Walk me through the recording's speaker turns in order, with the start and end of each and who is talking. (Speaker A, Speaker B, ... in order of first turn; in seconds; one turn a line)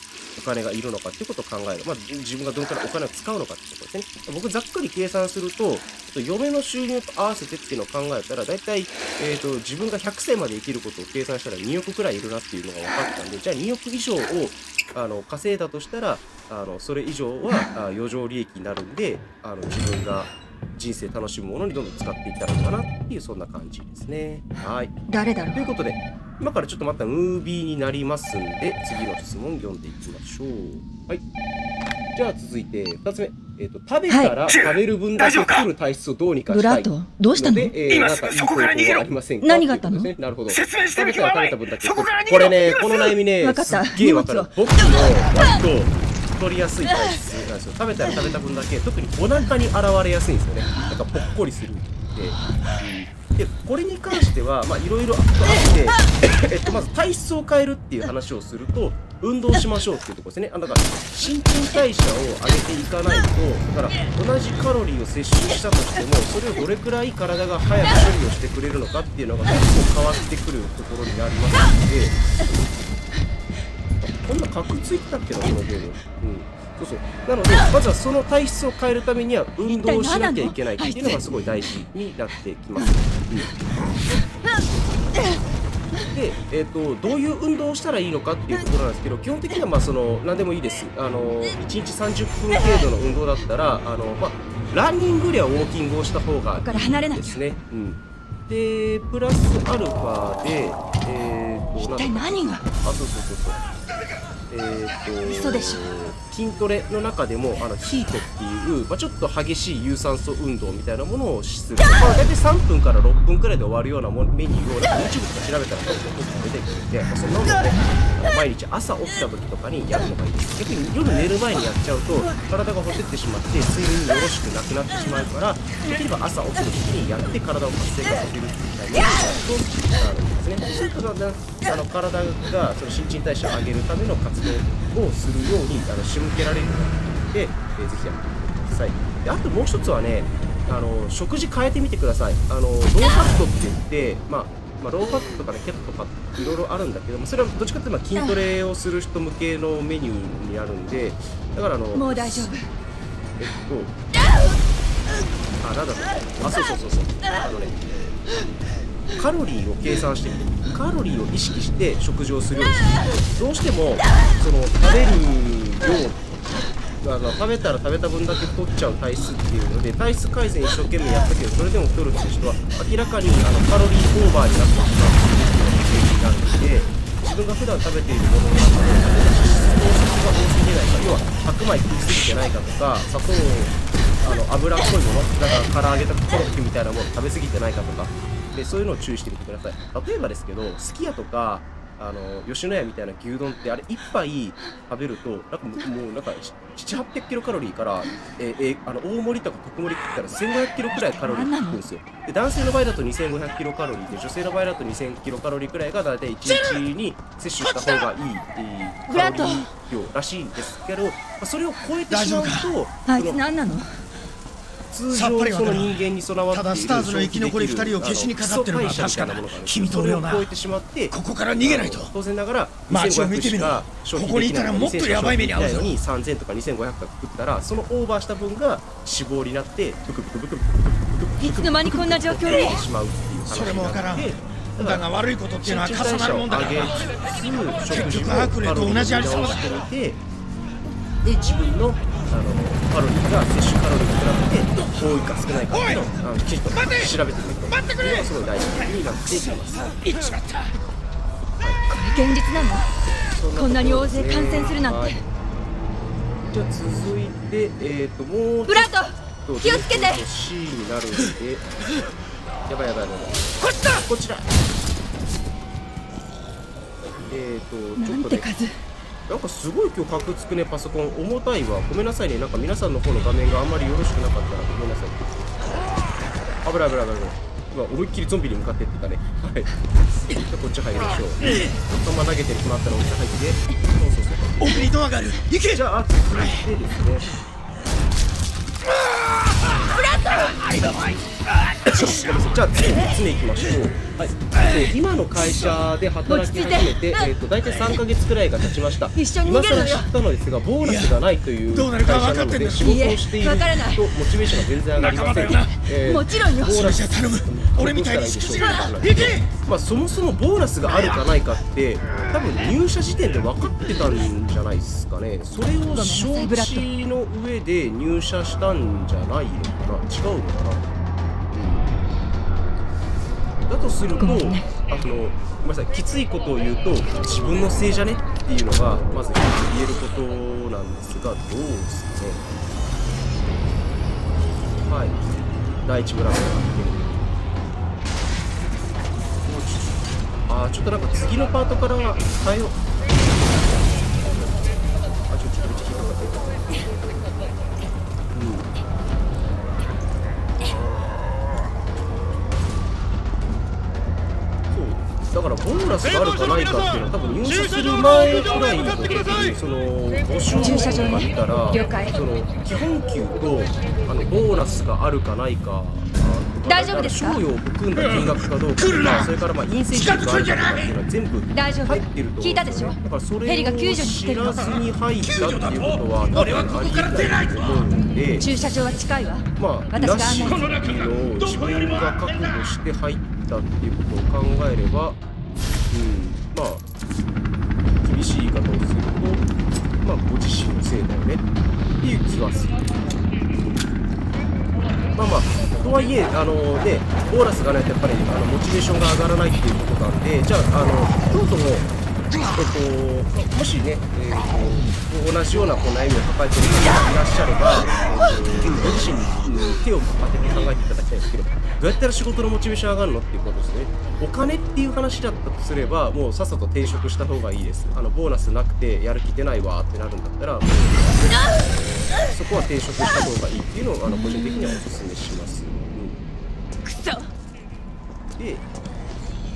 Speaker A: 0.3-25.0
Speaker B: 25.1-25.7
Speaker A: 25.5-31.2
Speaker A: 32.1-72.2
Speaker B: 34.1-34.4
Speaker B: 36.5-37.7
Speaker B: 39.4-40.1
Speaker B: 43.4-44.5
Speaker A: 74.0-83.5
Speaker B: 79.7-81.2
Speaker A: 86.1-103.6
Speaker B: 96.6-97.4
Speaker B: 101.8-102.7
Speaker A: 104.5-152.5
Speaker B: 105.2-105.8
Speaker B: 151.9-152.7
Speaker A: 153.4-153.9
Speaker A: 155.6-157.8
Speaker A: 159.1-166.2
Speaker A: 167.0-213.4
Speaker B: 201.1-201.8
Speaker B: 209.1-209.7
Speaker C: 212.1-212.7
Speaker B: 213.1-214.0
Speaker A: 214.9-235.1
Speaker C: 215.1-216.0
Speaker C: 216.5-220.5
Speaker C: 221.1-222.1
Speaker C: 222.9-226.0
Speaker B: 231.4-232.8
Speaker C: 233.5-237.2
Speaker A: 235.6-240.2
Speaker C: 237.9-239.8
Speaker A: 241.2-250.1
Speaker B: 251.9-252.9
Speaker A: 253.2-255.2
Speaker B: 253.6-255.2
Speaker A: 256.5-262.1
Speaker B: 258.7-260.2
Speaker A: 262.7-264.5
Speaker A: 267.2-268.5
Speaker B: 268.0-268.8
Speaker A: 269.3-275.6
Speaker A: 276.6-279.7
Speaker A: 280.3-285.0
Speaker C: 284.6-285.8
Speaker A: 285.6-287.3
Speaker B: 290.2-290.5
Speaker C: 290.6-291.1
Speaker A: 291.9-320.9
Speaker C: 292.0-292.2
Speaker B: 296.3-297.3
Speaker B: 299.1-300.1
Speaker C: 300.8-301.2
Speaker C: 301.7-302.8
Speaker B: 302.8-304.1
Speaker C: 305.0-305.8
Speaker B: 305.9-306.9
Speaker C: 306.7-309.5
Speaker B: 308.6-308.9
Speaker B: 315.9-316.9
Speaker A: 321.5-321.9
Speaker A: 323.7-332.4
Speaker B: 324.2-324.7
Speaker A: 334.8-335.2
Speaker A: 335.8-337.4
Speaker A: 339.4-344.8
Speaker A: 345.3-347.0
Speaker A: 348.3-348.7
Speaker A: 354.7-378.6
Speaker B: 360.6-362.2
Speaker B: 366.7-367.4
Speaker B: 371.5-374.8
Speaker B: 378.4-380.7
Speaker A: 379.6-385.2
Speaker A: 385.9-386.8
Speaker A: 387.9-389.5
Speaker A: 390.0-391.4
Speaker A: 392.0-392.9
Speaker A: 395.1-401.9
Speaker A: 402.6-426.2
Speaker B: 424.1-424.4
Speaker B: 426.9-427.2
Speaker A: 428.4-428.6